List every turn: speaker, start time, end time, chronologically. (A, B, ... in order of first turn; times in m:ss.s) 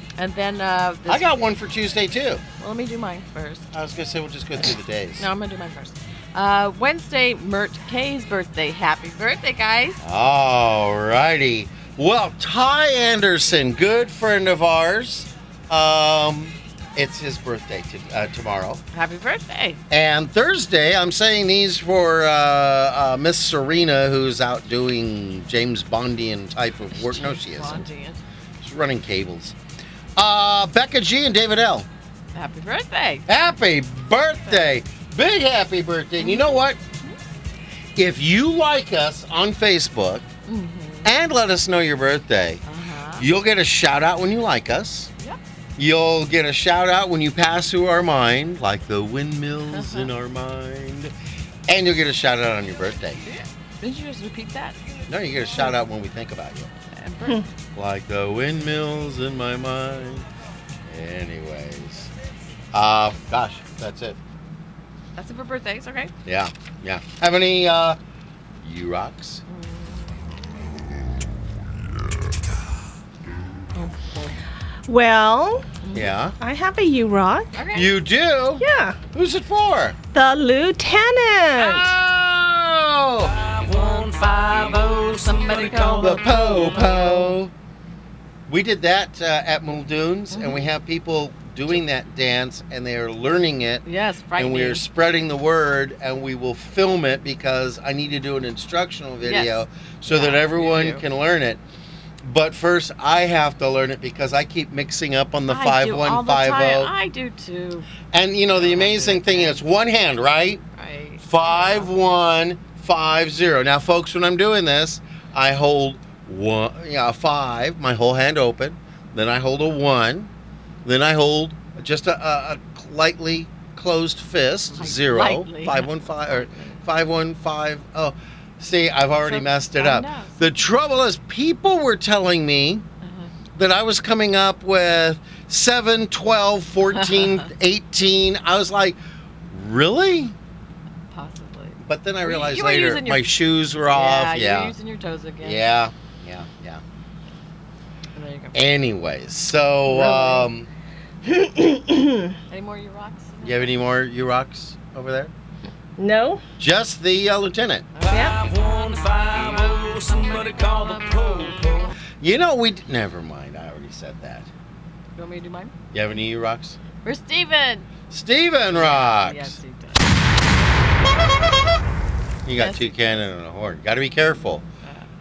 0:00.2-0:01.3 A
0:01.1-0:02.4 B
0:02.6-0:03.7 A
0:03.7-0:05.2 B
0:05.2-0:10.0 A
0:10.0-0:18.8 B
0:18.9-0:19.8 A
0:19.9-0:27.8 B
0:26.9-0:28.2 A
0:28.6-0:29.6 B
0:30.2-0:31.9 B
0:32.3-0:33.3 A
0:33.3-0:36.8 B
0:36.2-0:37.2 A
0:38.0-0:40.3 B
0:40.5-0:41.1 A
0:41.0-0:42.6 B
0:42.6-0:43.3 A
0:43.2-0:45.1 B
0:45.8-0:51.1 B
0:49.7-0:50.1 A
0:51.7-0:53.2 B
0:53.2-0:54.8 A
0:55.1-0:56.7 B
0:56.9-0:57.5 A
0:57.7-1:00.2 B
1:00.8-1:02.1 B
1:02.7-1:04.2 B
1:05.2-1:06.1 A
1:06.2-1:08.0 B
1:08.6-1:09.4 B
1:09.5-1:10.2 A
1:13.7-1:14.3 A
1:14.9-1:15.7 C
1:15.8-1:16.1 A
1:15.9-1:16.3 B
1:16.4-1:17.5 C
1:17.5-1:18.0 A
1:17.7-1:20.0 B
1:18.6-1:19.0 C
1:20.1-1:21.9 C
1:21.6-1:23.4 B
1:23.6-1:27.3 A
1:26.0-1:27.5 B
1:28.5-1:33.8 B
1:30.3-1:30.7 A
1:33.8-1:34.8 A
1:34.4-1:41.6 B
1:39.2-1:41.0 A
1:42.2-1:46.9 B
1:45.5-1:47.9 A
1:48.1-1:50.6 B
1:48.5-1:49.6 A
1:50.8-1:51.9 A
1:51.2-2:00.3 B
2:00.8-2:12.8 B
2:04.7-2:06.8 A
2:09.2-2:10.5 A
2:13.0-2:13.3 A
2:13.6-2:19.0 B
2:16.9-2:17.5 A
2:19.5-2:20.3 B
2:21.1-2:25.7 A
2:21.8-2:24.7 B
2:25.4-2:26.8 B
2:28.1-2:28.6 A
2:28.5-2:30.7 B
2:29.9-2:30.4 C
2:30.0-2:30.3 A
2:31.2-2:32.4 C
2:32.5-2:33.8 A
2:33.4-2:35.3 B
2:36.0-2:36.4 C
2:36.6-2:37.9 B
2:37.9-2:41.9 A
2:38.1-2:38.4 C
2:42.2-2:44.5 B
2:45.2-2:45.7 A
2:45.9-2:46.8 B
2:47.0-2:47.9 A
2:48.1-2:49.6 B
2:48.7-2:50.1 A
2:52.4-2:54.6 B
2:52.5-2:53.3 A